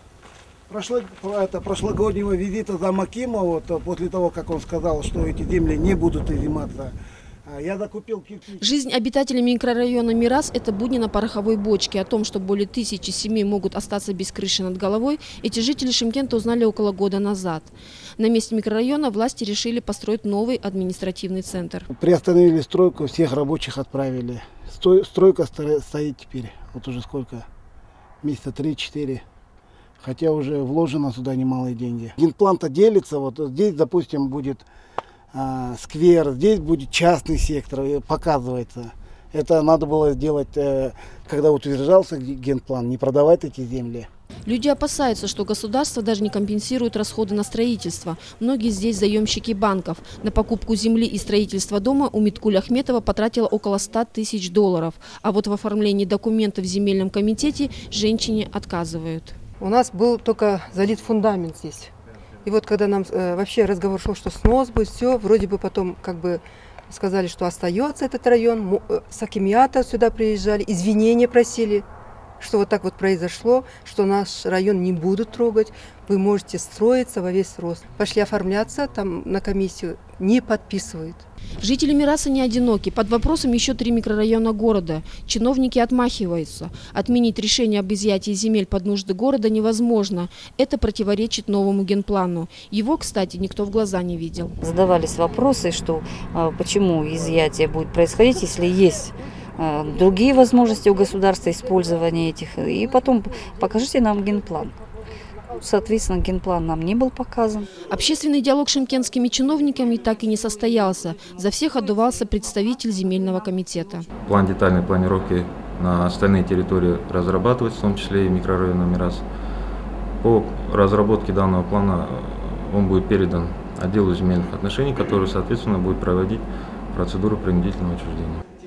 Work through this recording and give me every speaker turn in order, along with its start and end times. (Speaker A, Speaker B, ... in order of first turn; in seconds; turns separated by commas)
Speaker A: 0.7-6.9, Speaker A: 7.5-8.6, Speaker B: 8.6-21.9, Speaker A: 21.9-27.4, Speaker A: 28.2-29.2, Speaker A: 30.0-34.6, Speaker A: 35.3-44.1, Speaker B: 44.5-59.4, Speaker C: 59.6-61.9, Speaker C: 62.4-71.8, Speaker C: 72.4-81.2, Speaker B: 81.6-94.5, Speaker D: 94.6-104.8, Speaker D: 105.5-107.8, Speaker B: 107.8-114.1, Speaker E: 114.2-119.2, Speaker E: 120.2-128.4